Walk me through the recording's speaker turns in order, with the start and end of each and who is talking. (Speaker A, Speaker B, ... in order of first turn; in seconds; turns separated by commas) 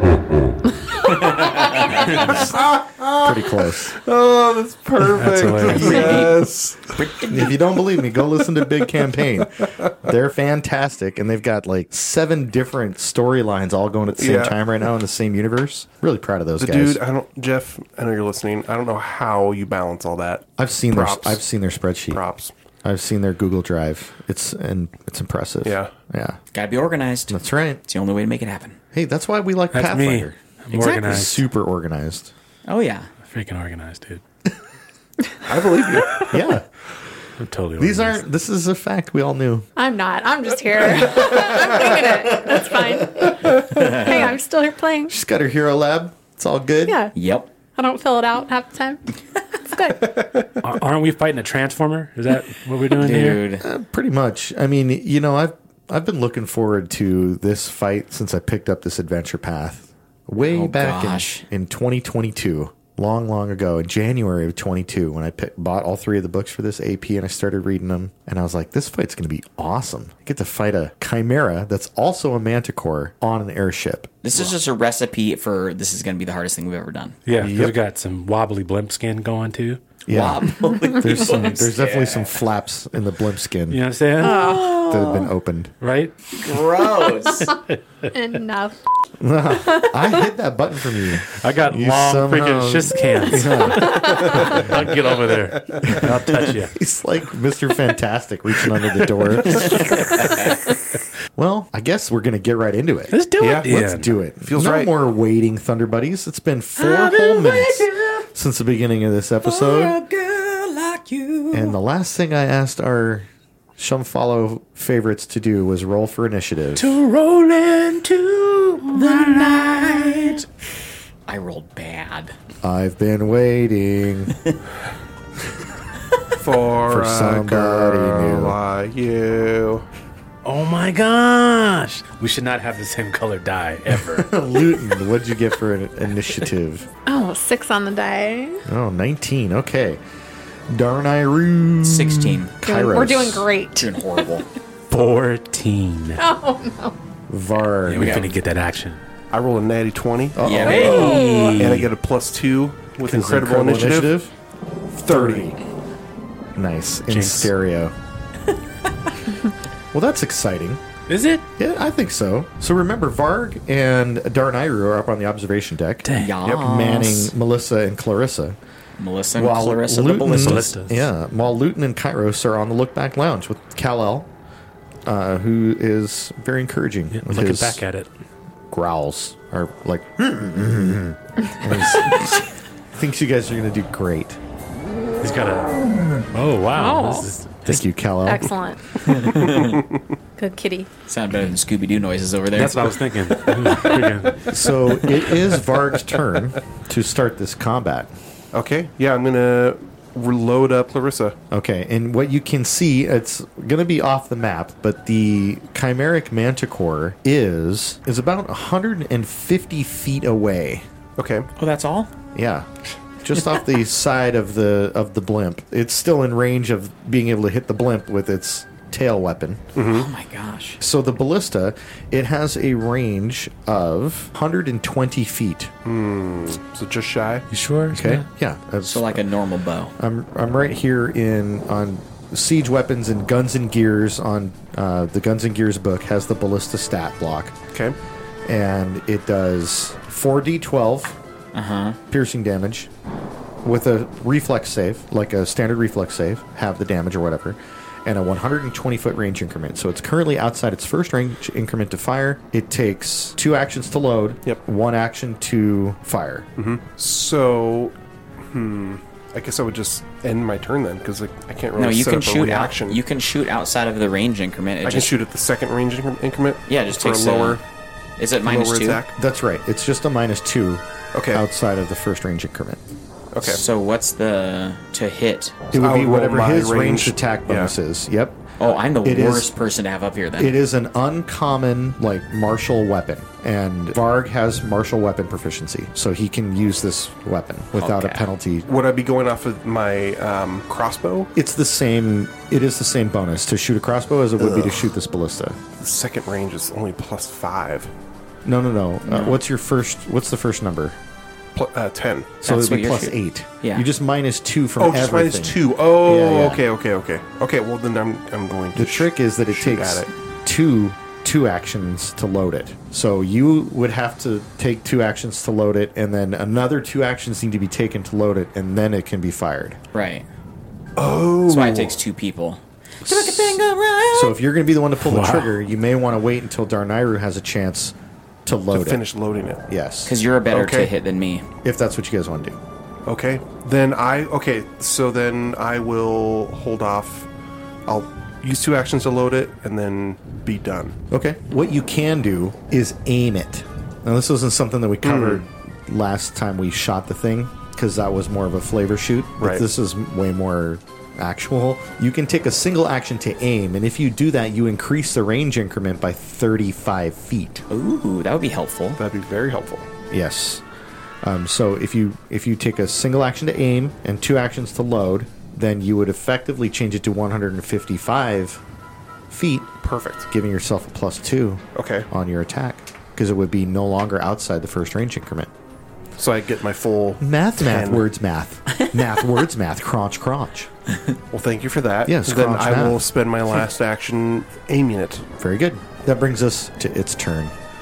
Speaker A: 1.6-2.4, Speaker B: 2.1-7.0, Speaker C: 2.2-2.5, Speaker C: 3.2-4.0, Speaker D: 5.0-6.2, Speaker A: 5.7-7.6, Speaker C: 7.3-17.0, Speaker B: 9.6-9.9, Speaker B: 14.2-14.6, Speaker B: 16.6-21.4, Speaker C: 20.6-22.2, Speaker B: 22.1-22.5, Speaker C: 22.8-26.4, Speaker B: 25.6-25.9, Speaker A: 26.5-28.8, Speaker C: 27.3-27.8, Speaker C: 28.9-32.3, Speaker D: 29.7-31.4, Speaker A: 32.7-33.1, Speaker D: 33.3-34.2, Speaker B: 35.5-36.3, Speaker C: 36.3-36.6, Speaker D: 37.4-38.3, Speaker C: 37.8-39.7, Speaker E: 39.8-45.1, Speaker C: 41.1-43.2, Speaker A: 43.8-44.3, Speaker C: 45.1-47.0, Speaker E: 46.9-47.1, Speaker A: 47.1-47.5, Speaker E: 47.8-50.3, Speaker D: 50.6-53.4, Speaker A: 53.0-53.6, Speaker C: 53.6-74.4, Speaker A: 60.5-61.5, Speaker A: 74.2-77.2, Speaker D: 77.3-79.8, Speaker C: 77.4-77.8, Speaker C: 80.1-83.8, Speaker A: 80.1-82.4, Speaker D: 83.7-84.5, Speaker E: 84.2-84.9, Speaker A: 84.2-85.3, Speaker C: 84.8-85.8, Speaker D: 85.8-86.1, Speaker A: 86.3-87.5, Speaker E: 88.1-88.8, Speaker C: 89.2-94.7, Speaker E: 89.7-90.1, Speaker D: 91.3-96.8, Speaker E: 93.7-94.4, Speaker C: 95.8-100.7, Speaker A: 99.7-100.6, Speaker C: 101.4-110.0, Speaker D: 103.1-104.1, Speaker B: 103.4-103.8, Speaker B: 104.4-104.9, Speaker A: 106.8-108.2, Speaker A: 109.5-111.8, Speaker C: 111.5-117.0, Speaker D: 116.8-118.0, Speaker A: 117.7-120.5, Speaker D: 118.9-120.2, Speaker A: 121.3-122.3, Speaker C: 122.6-124.4, Speaker B: 126.4-129.8, Speaker C: 126.9-128.6, Speaker D: 130.4-134.3, Speaker C: 133.9-136.9, Speaker E: 137.1-138.6, Speaker C: 138.7-140.0, Speaker C: 140.7-143.5, Speaker A: 141.8-142.5, Speaker E: 142.6-144.0, Speaker A: 143.8-144.5, Speaker D: 144.9-146.2, Speaker E: 146.2-147.0, Speaker C: 147.3-148.2, Speaker D: 147.9-149.0, Speaker A: 147.9-148.3, Speaker B: 149.3-154.2, Speaker C: 150.3-150.9, Speaker A: 150.4-151.2, Speaker D: 150.7-151.9, Speaker C: 153.0-154.3, Speaker C: 155.0-155.6, Speaker B: 155.1-155.5, Speaker C: 156.6-157.9, Speaker D: 157.1-157.5, Speaker C: 159.9-160.8, Speaker D: 161.1-161.5, Speaker C: 161.6-168.6, Speaker D: 166.1-166.3, Speaker A: 166.2-167.3, Speaker A: 169.0-170.7, Speaker C: 169.3-174.3, Speaker D: 170.3-171.1, Speaker C: 175.1-177.8, Speaker D: 177.1-178.1, Speaker C: 178.7-184.4, Speaker D: 185.2-185.8, Speaker D: 186.3-187.5, Speaker E: 186.8-187.4, Speaker C: 187.7-188.6, Speaker E: 188.2-189.5, Speaker B: 189.3-190.0, Speaker E: 190.4-190.9, Speaker A: 191.1-192.9, Speaker D: 192.6-194.5, Speaker C: 194.5-198.1, Speaker B: 198.5-201.4, Speaker C: 201.5-210.9, Speaker B: 211.2-211.5, Speaker A: 211.6-212.1, Speaker C: 212.3-212.7, Speaker C: 213.2-219.6, Speaker B: 219.8-220.1, Speaker A: 219.9-220.8, Speaker C: 220.8-225.7, Speaker B: 225.8-227.4, Speaker D: 227.5-228.3, Speaker C: 227.9-229.2, Speaker A: 228.8-229.9, Speaker C: 230.0-237.6, Speaker C: 238.5-241.2, Speaker A: 241.5-242.0, Speaker C: 242.1-242.9, Speaker C: 243.6-256.5, Speaker B: 256.6-263.0, Speaker A: 261.8-265.1, Speaker B: 264.8-267.6, Speaker A: 266.7-267.6, Speaker A: 268.2-269.0, Speaker B: 268.4-269.1, Speaker C: 269.2-272.8, Speaker B: 271.1-271.4, Speaker B: 273.3-273.6, Speaker A: 273.4-275.6, Speaker C: 275.7-278.4, Speaker B: 275.7-277.7, Speaker A: 278.6-280.6, Speaker C: 279.0-279.5, Speaker C: 280.4-288.7, Speaker A: 287.8-288.2, Speaker B: 288.7-291.3, Speaker C: 291.4-295.6, Speaker B: 294.4-294.7, Speaker B: 295.8-297.9, Speaker C: 298.4-301.0, Speaker A: 299.1-299.4, Speaker B: 301.6-302.4, Speaker A: 302.4-303.9, Speaker C: 302.4-306.6, Speaker B: 304.8-310.1, Speaker C: 308.8-319.8, Speaker A: 319.9-320.2, Speaker B: 321.0-322.0, Speaker A: 321.5-324.4, Speaker C: 323.0-327.9, Speaker D: 325.0-325.6, Speaker C: 328.5-329.0, Speaker B: 328.7-329.6, Speaker C: 329.7-330.1, Speaker A: 330.1-331.5, Speaker B: 330.5-330.9, Speaker C: 331.6-332.6, Speaker B: 333.1-337.3, Speaker B: 337.9-340.9, Speaker C: 341.1-357.6, Speaker B: 345.0-345.4, Speaker B: 349.4-349.7, Speaker A: 357.7-359.0, Speaker B: 359.0-359.9, Speaker C: 360.1-360.6, Speaker C: 361.2-368.6, Speaker C: 369.3-369.8, Speaker B: 369.8-370.3, Speaker C: 370.3-375.5, Speaker B: 371.8-372.1, Speaker B: 376.2-378.1, Speaker C: 377.2-380.7, Speaker B: 381.3-385.3, Speaker C: 382.1-383.1, Speaker C: 385.4-387.5